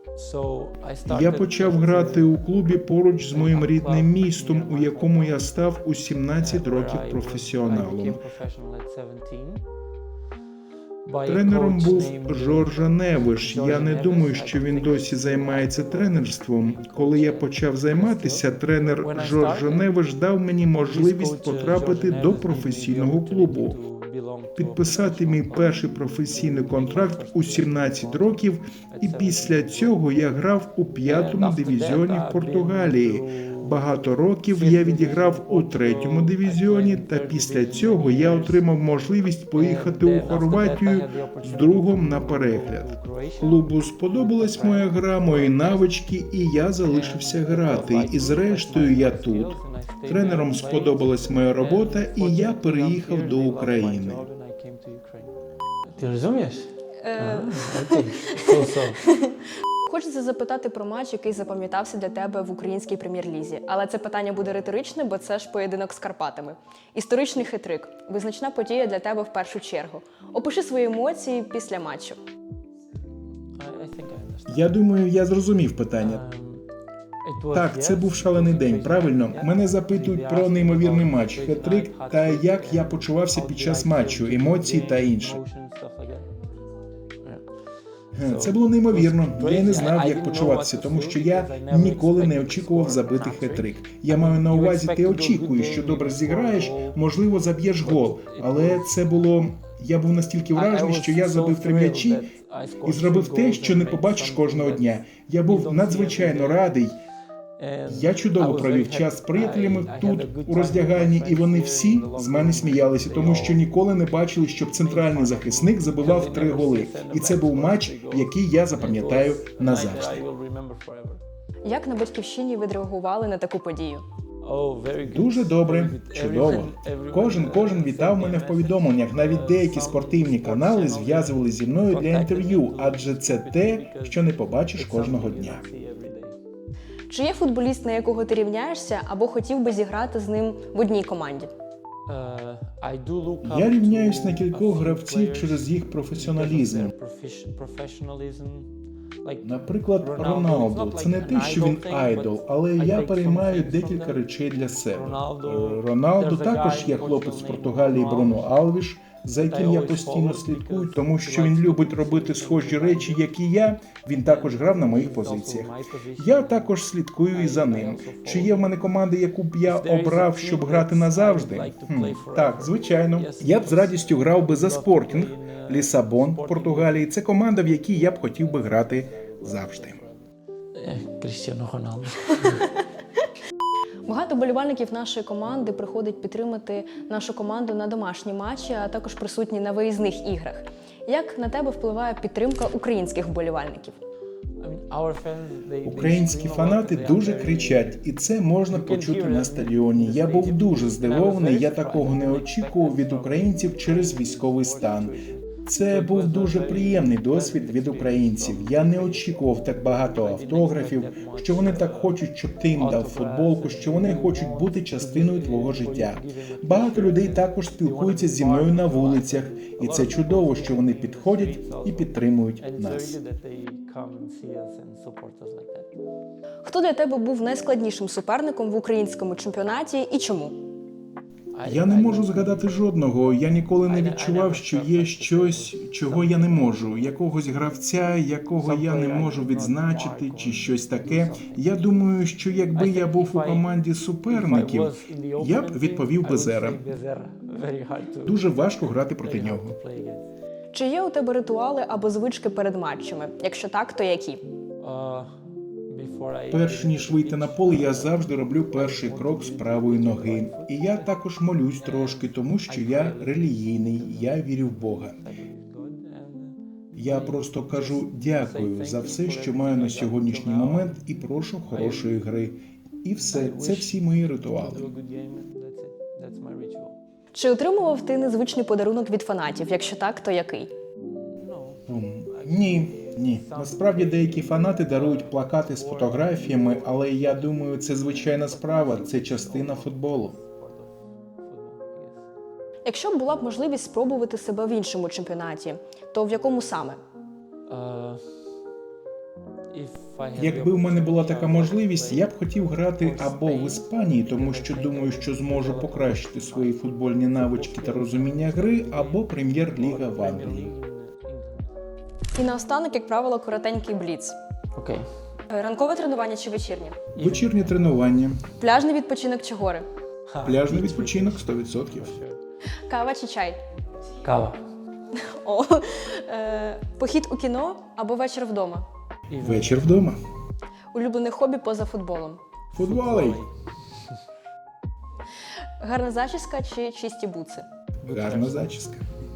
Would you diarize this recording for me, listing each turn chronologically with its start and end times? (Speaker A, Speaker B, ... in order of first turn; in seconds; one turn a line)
Speaker A: 0.1-2.4
Speaker B: 1.1-8.2
Speaker A: 3.3-5.5
Speaker A: 6.4-9.6
Speaker A: 11.0-19.9
Speaker B: 11.2-23.8
Speaker A: 20.8-30.0
Speaker B: 24.6-54.3
Speaker A: 31.0-38.7
Speaker A: 39.5-45.9
Speaker A: 46.8-59.0
Speaker C: 57.0-58.5
Speaker C: 59.0-72.2
Speaker A: 73.5-74.7
Speaker B: 74.5-76.2
Speaker A: 76.0-76.6
Speaker A: 77.2-86.3
Speaker B: 77.5-85.4
Speaker B: 88.2-102.3
Speaker A: 88.2-97.0
Speaker A: 97.8-98.9
Speaker A: 100.5-106.7
Speaker B: 102.8-107.0
Speaker A: 107.6-113.6
Speaker B: 107.9-120.2
Speaker A: 114.7-121.2
Speaker C: 121.6-124.0
Speaker A: 124.4-136.4
Speaker B: 125.0-135.6
Speaker C: 137.1-141.5
Speaker A: 142.1-148.7
Speaker B: 143.4-146.9
Speaker A: 149.2-154.2
Speaker B: 149.4-180.0
Speaker A: 154.9-158.6
Speaker A: 159.5-163.3
Speaker A: 164.2-166.7
Speaker A: 167.3-168.7
Speaker A: 169.6-177.0
Speaker A: 177.8-180.2
Speaker A: 180.7-182.7
Speaker C: 184.1-194.0
Speaker A: 194.6-198.0
Speaker B: 195.8-205.1
Speaker A: 198.7-209.4
Speaker B: 205.7-223.2
Speaker A: 210.1-225.9
Speaker C: 226.6-230.6
Speaker A: 231.5-232.8
Speaker B: 231.6-246.8
Speaker A: 233.8-237.1
Speaker A: 238.6-241.9
Speaker A: 242.7-243.7
Speaker A: 244.3-250.2
Speaker B: 248.2-249.7
Speaker C: 250.7-254.4
Speaker A: 254.8-255.3
Speaker A: 255.9-261.1
Speaker B: 256.5-265.2
Speaker A: 261.8-264.5
Speaker A: 265.1-271.0
Speaker B: 266.9-274.9
Speaker A: 271.7-272.2
Speaker A: 273.2-277.0
Speaker C: 277.3-280.7
Speaker A: 281.1-292.3
Speaker B: 281.9-290.4
Speaker C: 292.8-297.0
Speaker A: 297.7-298.2
Speaker A: 299.7-302.3
Speaker B: 300.4-310.7
Speaker A: 303.0-306.8
Speaker A: 307.3-311.7
Speaker C: 312.3-314.4
Speaker A: 314.8-315.0
Speaker C: 315.5-317.0
Speaker A: 317.1-317.8
Speaker B: 317.1-318.4
Speaker C: 318.6-319.9
Speaker A: 320.3-322.4
Speaker B: 320.4-322.1
Speaker C: 322.9-323.6
Speaker A: 324.2-324.6
Speaker C: 325.1-328.9
Speaker A: 329.3-330.1
Speaker B: 329.4-330.2
Speaker C: 330.9-332.4
Speaker B: 332.7-333.4
Speaker A: 332.8-333.5
Speaker C: 335.8-337.6
Speaker B: 338.0-339.0
Speaker A: 338.1-338.7